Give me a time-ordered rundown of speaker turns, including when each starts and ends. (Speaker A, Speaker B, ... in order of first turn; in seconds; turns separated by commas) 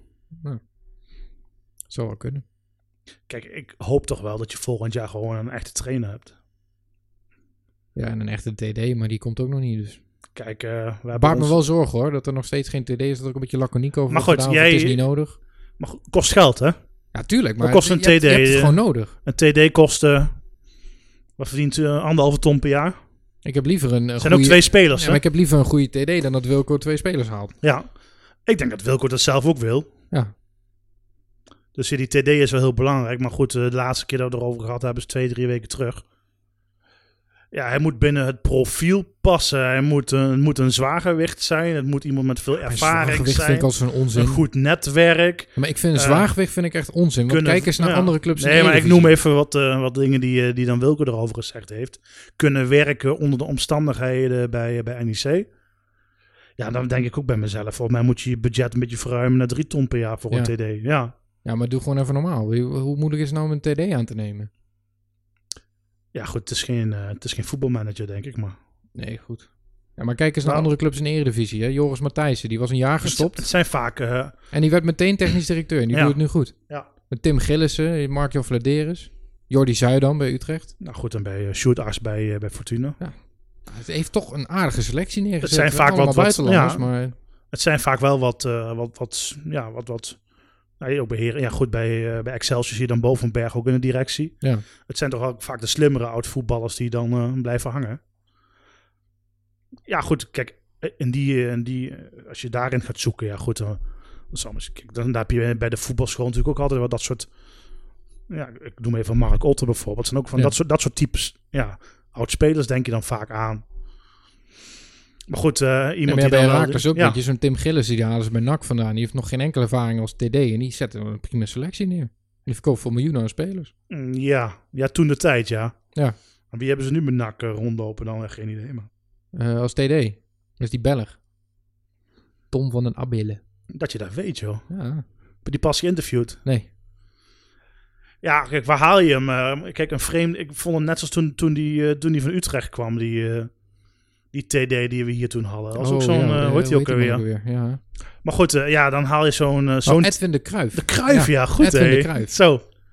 Speaker A: 0.3-0.6, Speaker A: 1.9-2.4, Speaker B: 3.3-6.3, Speaker A: 7.9-10.0, Speaker B: 10.3-11.6, Speaker A: 11.1-15.3, Speaker B: 14.1-15.0, Speaker B: 15.8-16.8, Speaker A: 17.1-19.1, Speaker B: 17.6-20.4, Speaker B: 21.4-23.0, Speaker A: 23.4-27.6, Speaker B: 24.2-25.2, Speaker B: 27.6-27.9, Speaker B: 28.4-29.9, Speaker B: 31.7-36.0, Speaker B: 37.5-46.3, Speaker A: 42.6-44.4, Speaker A: 45.5-49.2, Speaker B: 47.3-55.5, Speaker B: 56.6-61.1, Speaker A: 61.4-64.5, Speaker B: 66.1-68.6, Speaker A: 68.9-73.5, Speaker B: 73.0-74.3, Speaker A: 74.5-80.7, Speaker B: 75.9-76.9, Speaker B: 80.8-83.0, Speaker A: 83.0-87.1, Speaker B: 85.4-86.9, Speaker B: 87.5-90.2, Speaker B: 90.8-98.0, Speaker B: 99.9-107.3, Speaker B: 108.3-113.6, Speaker B: 115.3-117.2, Speaker A: 116.1-123.7, Speaker B: 123.9-125.8, Speaker B: 126.5-128.9, Speaker A: 129.3-131.2, Speaker A: 132.5-133.4, Speaker B: 133.7-134.7, Speaker A: 134.7-135.0, Speaker B: 135.4-136.4, Speaker B: 138.2-143.6, Speaker B: 144.3-147.2, Speaker A: 145.7-147.8, Speaker B: 148.2-152.6, Speaker A: 149.8-152.3